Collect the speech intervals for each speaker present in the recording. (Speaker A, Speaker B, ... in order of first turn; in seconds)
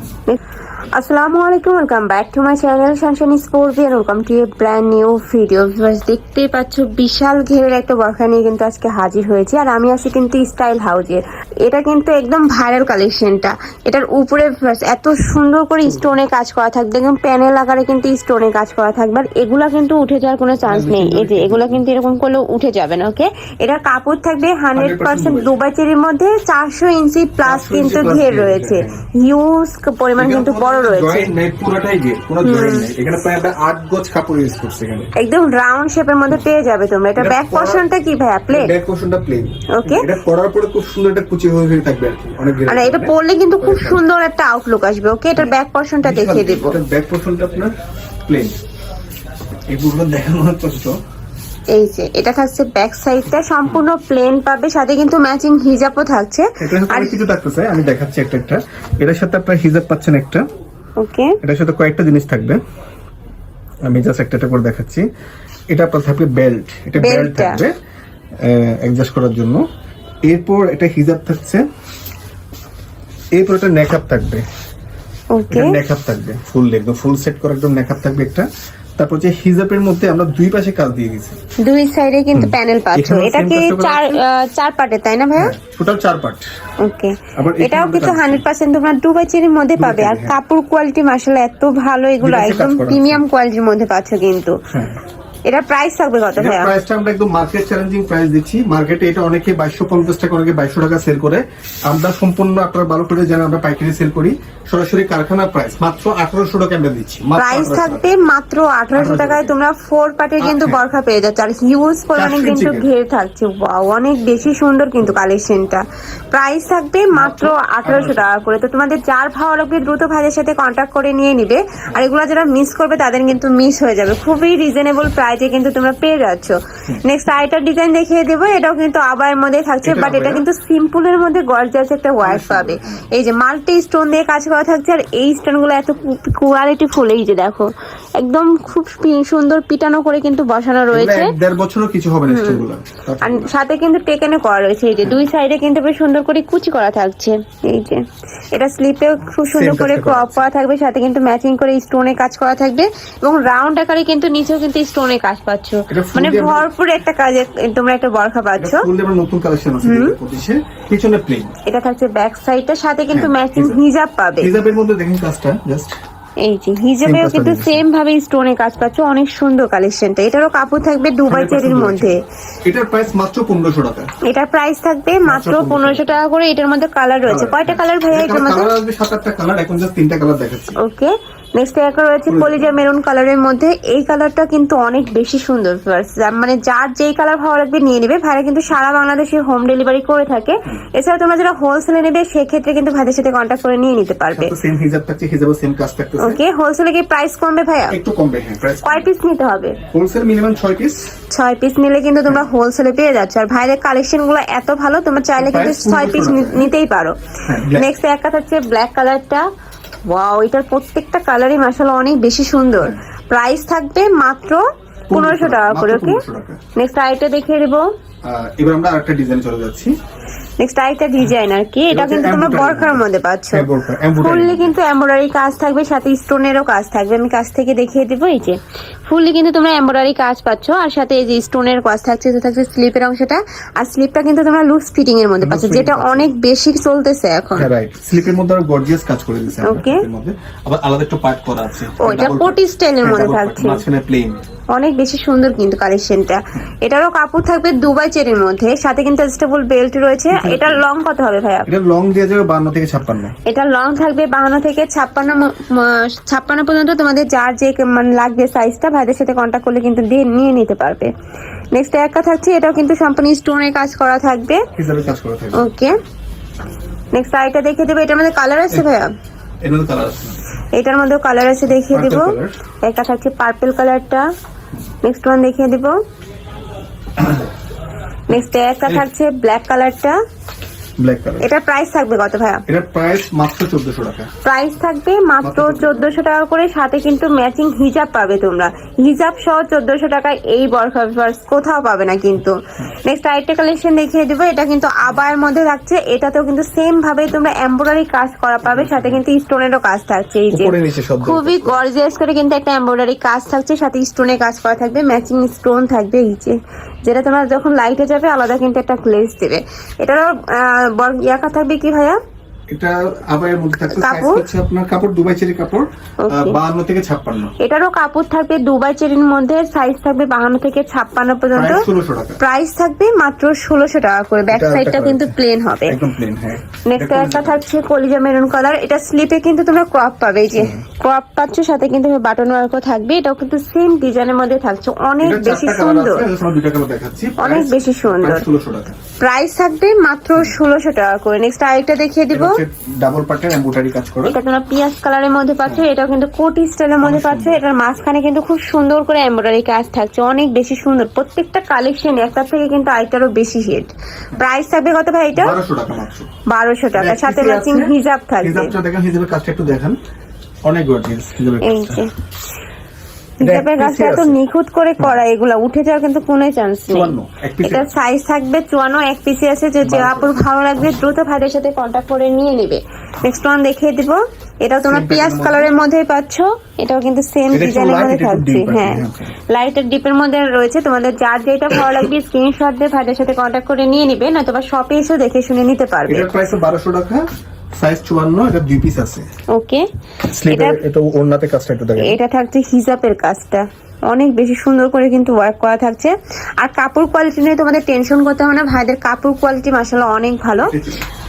Speaker A: 0.9-31.3, 32.4-32.9, 35.2-38.7, 39.7-40.0, 42.7-46.8, 51.7-57.2, 61.0-61.4, 67.0-67.6, 75.3-75.8, 81.6-85.5, 86.8-94.6, 95.5-96.7, 107.4-141.3, 142.3-142.6, 143.2-148.0, 148.5-158.8, 159.8-160.2, 161.7-164.5, 166.4-172.2, 174.2-178.7, 180.8-194.5, 196.2-197.9, 198.8-199.8, 201.3-207.1, 207.7-209.4, 210.1-216.2, 216.8-217.9, 220.6-223.7, 224.2-237.7, 239.6-240.0, 242.0-243.8, 244.7-251.7, 253.4-261.1, 261.7-264.6, 265.5-265.9, 267.1-269.1, 270.7-274.3, 275.0-275.9, 278.3-280.2, 281.4-282.6, 284.4-312.2, 313.9-314.4, 316.2-316.6, 317.6-321.8, 322.4-326.0, 326.9-336.2, 337.4-338.4, 339.2-342.6, 344.2-355.6, 356.5-358.7, 361.6-362.1, 363.4-386.3, 389.5-389.9, 390.5-390.8, 392.0-400.7
Speaker B: 20.6-21.8, 24.7-25.5, 27.4-29.0, 30.2-35.1, 37.2-37.8, 38.5-44.0, 46.0-47.7, 48.2-48.5, 49.7-51.0, 56.6-60.4, 61.4-62.6, 63.9-65.0, 65.7-67.7, 68.4-69.6, 70.2-71.6, 73.3-74.4, 75.5-78.5, 79.0-81.4, 82.3-84.2, 85.3-86.5, 87.3-88.4, 89.8-90.3, 92.2-93.2, 94.7-95.0, 96.3-108.0, 108.9-109.5, 110.4-110.8, 112.1-112.9, 117.1-118.3, 129.8-130.4, 132.2-133.0, 140.9-143.4, 149.5-150.4, 155.9-156.6, 158.6-161.5, 163.1-163.8, 164.4-165.9, 167.0-167.8, 171.3-174.1, 175.2-176.1, 177.3-180.8, 182.3-182.7, 194.3-196.4, 197.9-199.1, 199.9-201.0, 205.4-206.7, 207.5-207.8, 215.1-216.6, 218.2-219.9, 221.9-224.8, 235.4-236.3, 237.6-244.4, 250.3-250.8, 251.7-253.3, 264.8-265.7, 269.6-270.4, 271.7-272.6, 277.2-277.5, 281.0-281.4, 282.7-284.3, 285.4-286.1, 298.6-299.2, 300.5-301.8, 312.7-317.5, 321.5-322.4, 324.5-325.3, 325.9-327.6, 330.6-330.8, 335.2-339.0, 342.3-344.4, 347.0-347.6, 355.3-356.3, 356.9-360.0, 360.7-362.0, 363.4-364.4, 366.9-367.9, 369.8-370.3, 374.8-375.7, 377.5-379.4, 386.1-387.2, 387.8-389.3, 390.3-392.2, 400.6-401.0